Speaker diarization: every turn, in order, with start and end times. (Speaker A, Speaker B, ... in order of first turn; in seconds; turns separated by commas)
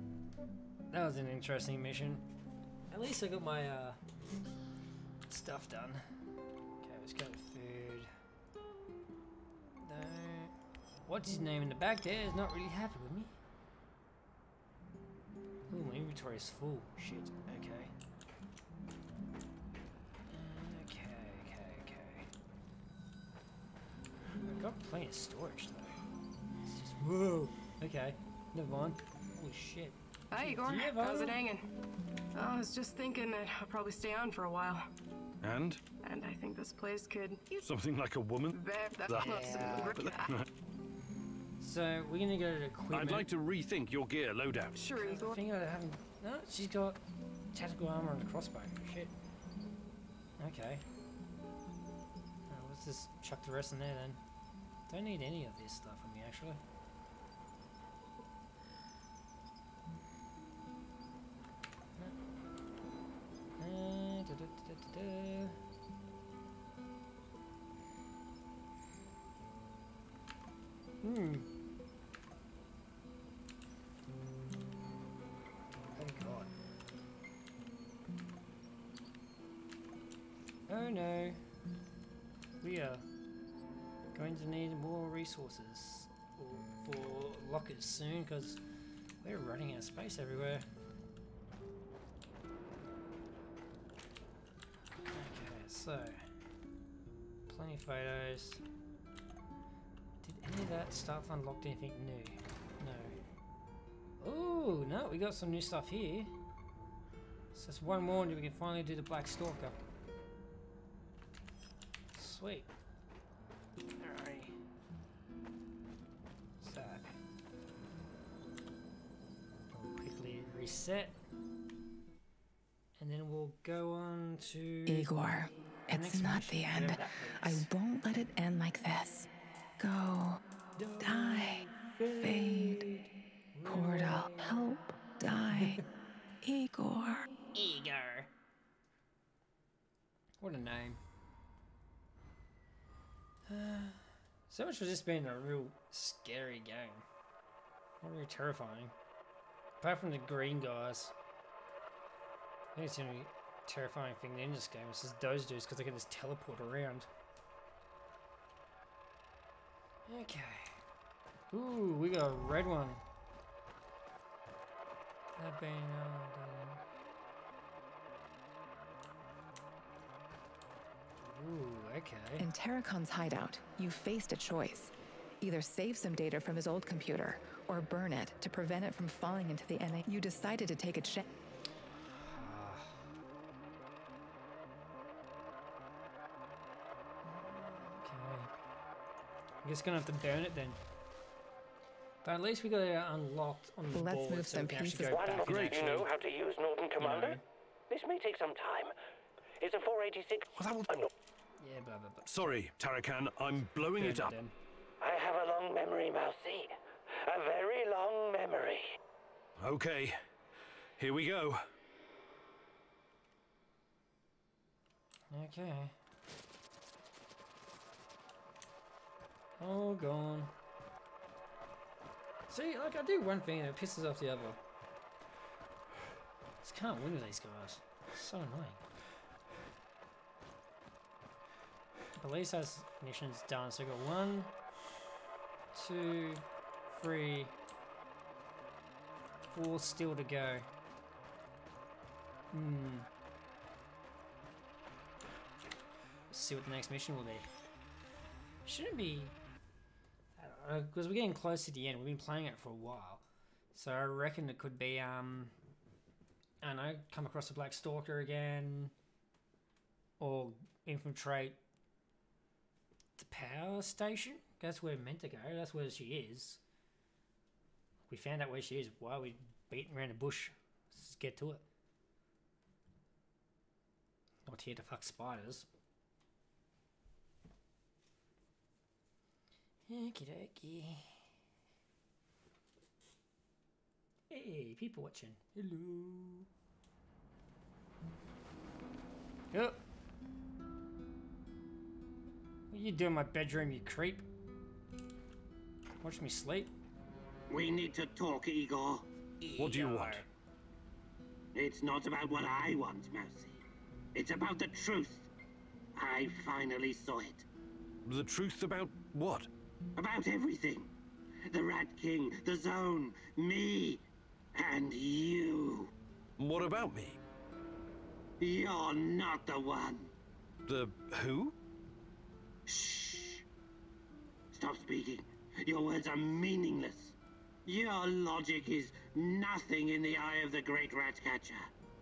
Speaker A: 0.9-2.2, Speaker A: 2.9-4.0, Speaker A: 5.3-6.1, Speaker A: 6.8-8.1, Speaker A: 9.8-13.3, Speaker A: 15.7-17.9, Speaker A: 20.3-22.3, Speaker A: 24.5-26.0, Speaker A: 26.6-31.4, Speaker B: 30.3-31.7, Speaker B: 32.3-34.9, Speaker C: 35.4-35.8, Speaker B: 36.0-37.6, Speaker C: 37.6-38.6, Speaker B: 38.5-40.4, Speaker C: 39.1-40.5, Speaker A: 39.1-40.0, Speaker A: 41.6-43.3, Speaker C: 42.9-44.8, Speaker B: 44.8-45.4, Speaker A: 45.0-47.0, Speaker A: 47.5-49.1, Speaker A: 50.4-50.8, Speaker A: 52.5-54.2, Speaker A: 54.9-56.6, Speaker A: 63.6-65.6, Speaker A: 71.0-71.5, Speaker A: 75.9-76.5, Speaker A: 80.7-81.4, Speaker A: 82.6-83.1, Speaker A: 84.1-88.6, Speaker A: 89.2-90.7, Speaker A: 95.1-96.3, Speaker A: 97.5-98.6, Speaker A: 100.2-103.2, Speaker A: 104.2-106.3, Speaker A: 107.5-109.8, Speaker A: 112.1-112.7, Speaker A: 114.0-114.6, Speaker A: 116.6-117.1, Speaker A: 119.7-121.2, Speaker A: 123.0-125.1, Speaker D: 124.9-129.3, Speaker A: 125.9-127.7, Speaker D: 129.8-130.4, Speaker A: 130.8-134.7, Speaker D: 131.0-131.6, Speaker D: 132.2-132.8, Speaker D: 133.6-135.8, Speaker A: 135.5-135.8, Speaker D: 136.4-137.3, Speaker A: 137.5-138.3, Speaker A: 140.4-141.0, Speaker A: 143.5-147.1, Speaker A: 148.0-148.9, Speaker A: 149.8-151.1, Speaker A: 152.8-157.1, Speaker A: 160.1-160.8, Speaker A: 161.5-163.0, Speaker A: 165.4-166.8, Speaker A: 171.2-172.5, Speaker D: 172.4-181.2, Speaker A: 182.1-183.0, Speaker A: 187.2-188.5, Speaker A: 189.6-190.8, Speaker A: 192.2-195.8, Speaker D: 193.9-195.5, Speaker E: 195.0-198.9, Speaker C: 195.5-196.1, Speaker A: 197.0-197.4, Speaker E: 199.6-201.1, Speaker C: 200.6-200.9, Speaker A: 201.6-202.6, Speaker C: 202.3-204.3, Speaker A: 203.6-204.5, Speaker E: 205.0-209.0, Speaker C: 209.6-210.2, Speaker C: 211.0-211.6, Speaker A: 215.3-215.9, Speaker A: 219.6-220.5, Speaker A: 222.5-224.6, Speaker A: 226.6-228.8, Speaker A: 232.2-234.5, Speaker A: 235.7-237.5, Speaker A: 239.5-240.7, Speaker A: 242.5-243.1, Speaker A: 246.3-247.5, Speaker A: 248.7-249.3, Speaker A: 250.4-255.5, Speaker A: 256.6-258.9, Speaker A: 260.2-261.6, Speaker A: 263.2-266.6, Speaker A: 268.1-271.6, Speaker A: 274.5-275.7, Speaker A: 279.9-281.3, Speaker A: 284.3-286.5, Speaker A: 289.5-289.8, Speaker A: 292.7-294.3, Speaker A: 296.0-296.7, Speaker F: 297.5-299.1, Speaker A: 299.4-300.2, Speaker C: 299.6-300.3, Speaker F: 301.5-303.6, Speaker F: 304.1-305.3, Speaker F: 305.9-307.5, Speaker C: 308.1-309.5, Speaker F: 310.0-310.9, Speaker F: 311.5-315.9, Speaker C: 316.4-317.2, Speaker F: 318.4-320.1, Speaker C: 320.7-321.5, Speaker F: 322.7-323.4, Speaker F: 324.5-331.7